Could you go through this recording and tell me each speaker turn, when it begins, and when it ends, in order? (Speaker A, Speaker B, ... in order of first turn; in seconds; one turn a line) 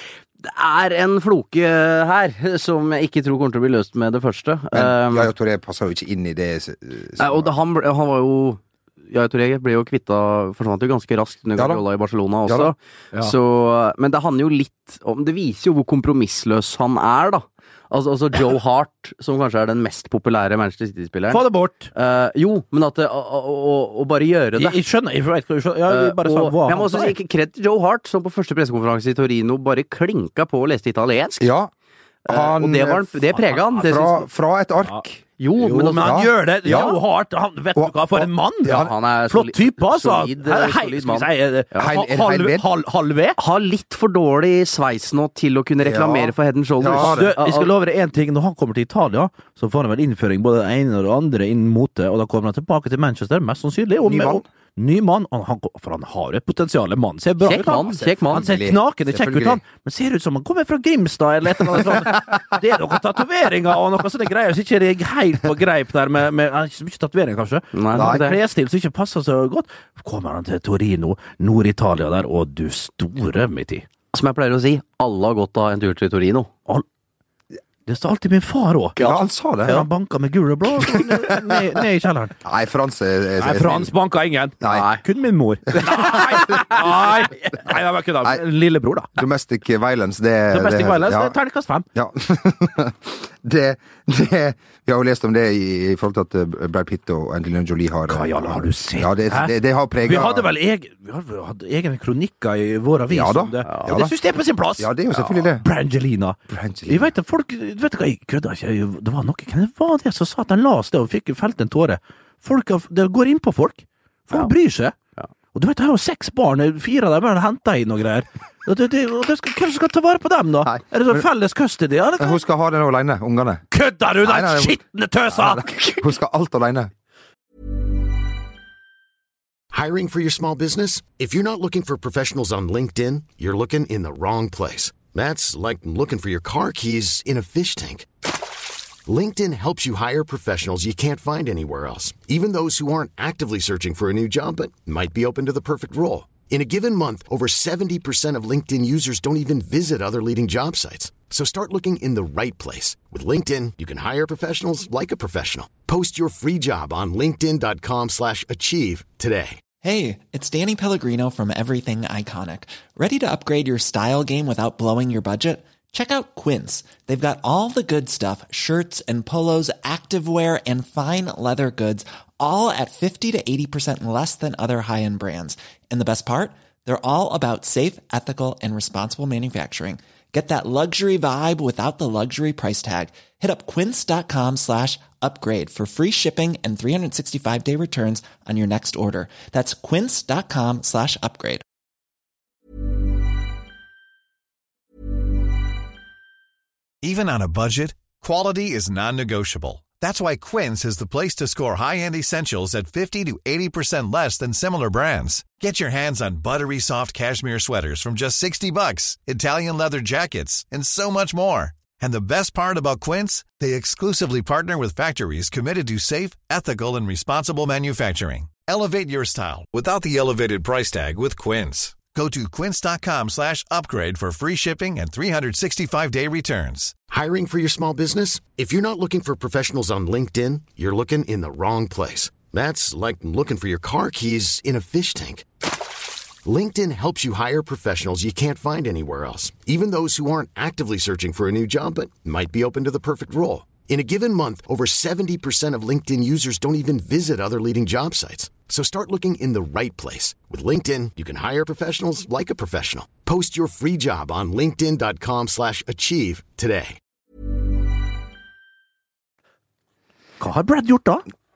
Speaker A: 0.4-5.3
Speaker B: 4.7-7.5
Speaker A: 7.2-21.4
Speaker B: 11.6-11.8
Speaker B: 12.5-12.7
Speaker C: 21.3-21.9
Speaker A: 21.9-24.8
Speaker C: 24.6-27.1
Speaker A: 25.9-31.5
Speaker B: 31.4-31.7
Speaker A: 32.2-34.2
Speaker B: 32.3-33.2
Speaker C: 33.4-33.6
Speaker B: 33.7-35.2
Speaker A: 35.4-37.0
Speaker C: 35.6-43.4
Speaker B: 36.0-37.0
Speaker B: 37.8-38.9
Speaker A: 38.7-41.9
Speaker B: 41.8-42.6
Speaker A: 43.4-47.7
Speaker B: 45.8-47.3
Speaker C: 47.0-73.9
Speaker B: 54.0-54.4
Speaker A: 57.4-58.5
Speaker B: 58.2-59.6
Speaker B: 61.7-62.3
Speaker A: 67.7-68.4
Speaker B: 67.9-68.2
Speaker A: 74.1-76.5
Speaker C: 77.9-79.0
Speaker A: 79.0-79.8
Speaker B: 79.0-79.9
Speaker C: 79.7-82.4
Speaker B: 80.8-81.6
Speaker B: 82.4-83.9
Speaker C: 83.4-89.1
Speaker A: 84.7-85.0
Speaker B: 85.8-87.2
Speaker B: 89.2-91.4
Speaker C: 90.5-91.9
Speaker B: 92.0-100.5
Speaker C: 98.1-115.0
Speaker B: 103.1-104.1
Speaker A: 103.7-104.0
Speaker B: 104.8-105.7
Speaker B: 106.5-107.1
Speaker C: 115.5-122.4
Speaker B: 120.7-121.2
Speaker B: 122.2-123.6
Speaker C: 123.7-125.9
Speaker B: 124.2-126.9
Speaker D: 129.7-138.1
Speaker D: 139.1-159.6
Speaker E: 159.8-191.6
Speaker F: 197.0-226.9
Speaker D: 227.1-235.5
Speaker D: 236.4-257.0
Speaker C: 260.4-261.2